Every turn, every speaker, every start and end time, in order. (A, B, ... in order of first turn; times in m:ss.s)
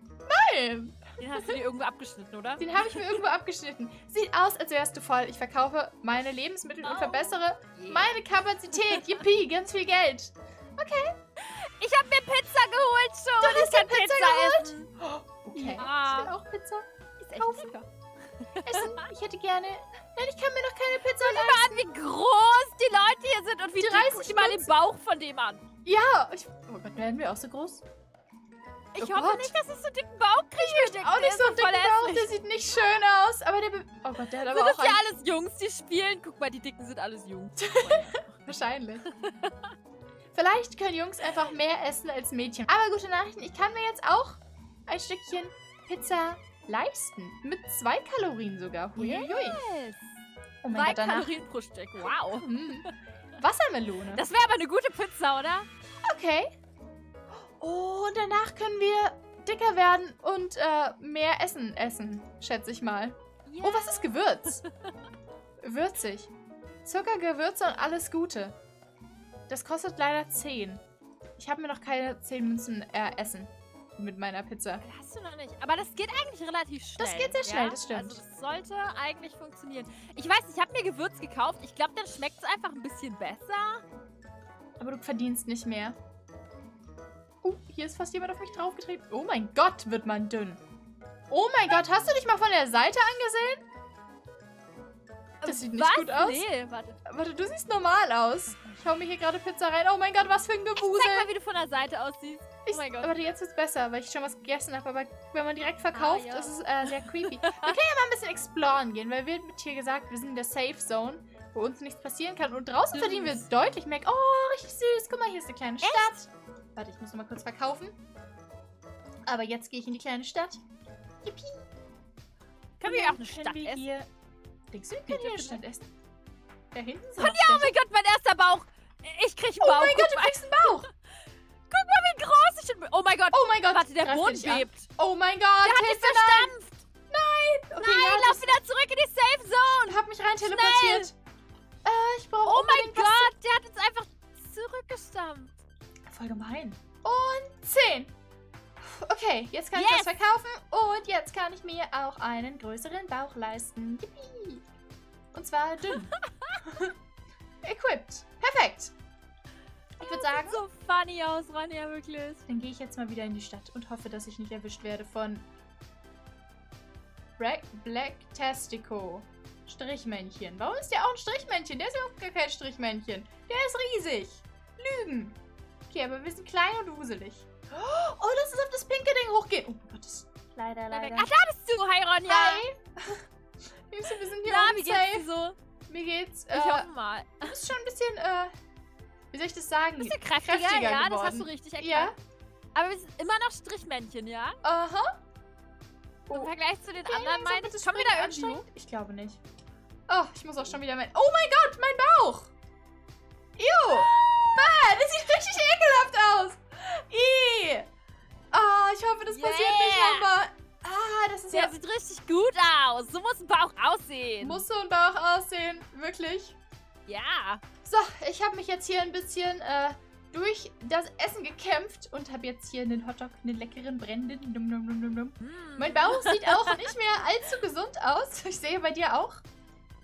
0:00.3-0:01.5 A
0:01.2-0:03.2 B
0:02.6-0:11.2 A
0:06.8-0:08.1 B
0:08.7-0:09.1 B
0:11.4-0:14.9 B
0:13.4-0:17.8 A
0:15.5-0:16.3 B
0:17.2-0:17.9 B
0:18.4-0:19.1 B
0:18.6-0:21.8 A
0:21.1-0:25.6 B
0:23.8-0:24.7 A
0:25.8-0:27.8 A
0:28.9-0:32.3 B
0:29.0-0:29.6 A
0:30.6-0:35.0 A
0:34.5-0:38.5 B
0:37.6-0:39.1 A
0:39.0-0:39.7 B
0:40.3-0:49.6 A
0:49.0-0:50.2 B
0:50.6-0:51.4 A
0:50.7-0:52.9 B
0:52.0-0:54.2 A
0:54.1-0:55.7 B
0:56.0-0:56.5 A
0:57.4-1:04.6 A
1:03.5-1:04.7 B
1:05.6-1:06.3 A
1:06.8-1:08.6 A
1:09.5-1:10.8 A
1:11.4-1:14.8 A
1:14.8-1:23.8 B
1:17.0-1:18.2 A
1:24.8-1:26.0 A
1:27.4-1:30.6 A
1:31.3-1:33.6 A
1:35.4-1:37.0 B
1:35.4-1:36.5 A
1:37.0-1:41.3 A
1:40.8-1:43.2 B
1:42.6-1:57.9 A
1:45.9-1:47.7 B
1:52.9-1:53.5 B
1:55.8-1:56.2 B
1:59.3-2:00.6 A
2:01.2-2:01.6 A
2:02.8-2:03.8 B
2:02.8-2:04.1 A
2:04.7-2:05.9 A
2:05.0-2:05.6 B
2:06.7-2:07.7 A
2:07.2-2:10.9 B
2:09.6-2:10.9 A
2:11.7-2:14.9 B
2:13.3-2:16.5 A
2:15.6-2:16.8 B
2:17.1-2:18.6 A
2:17.8-2:21.1 B
2:19.6-2:21.1 A
2:21.8-2:23.3 A
2:22.4-2:25.5 B
2:26.1-2:28.1 A
2:28.8-2:34.6 A
2:29.7-2:30.1 B
2:35.3-2:36.9 A
2:36.2-2:36.6 B
2:37.6-2:38.9 A
2:40.0-2:40.6 A
2:40.0-2:42.4 B
2:42.5-2:45.4 A
2:47.4-2:55.4 A
2:55.9-3:01.4 A
3:00.9-3:02.6 B
3:02.2-3:03.2 A
3:03.9-3:05.2 A
3:04.4-3:05.6 B
3:05.9-3:06.9 A
3:06.5-3:07.6 B
3:07.4-3:08.5 A
3:09.3-3:12.1 A
3:10.0-3:12.1 B
3:12.7-3:14.6 B
3:14.6-3:15.2 A
3:16.3-3:18.6 B
3:17.0-3:19.4 A
3:20.1-3:22.5 A
3:23.6-3:27.9 A
3:23.8-3:24.8 B
3:28.5-3:31.8 A
3:29.3-3:30.3 B
3:31.5-3:34.6 B
3:34.4-3:36.6 A
3:37.1-3:37.6 B
3:37.8-3:49.4 A
3:45.4-3:46.9 B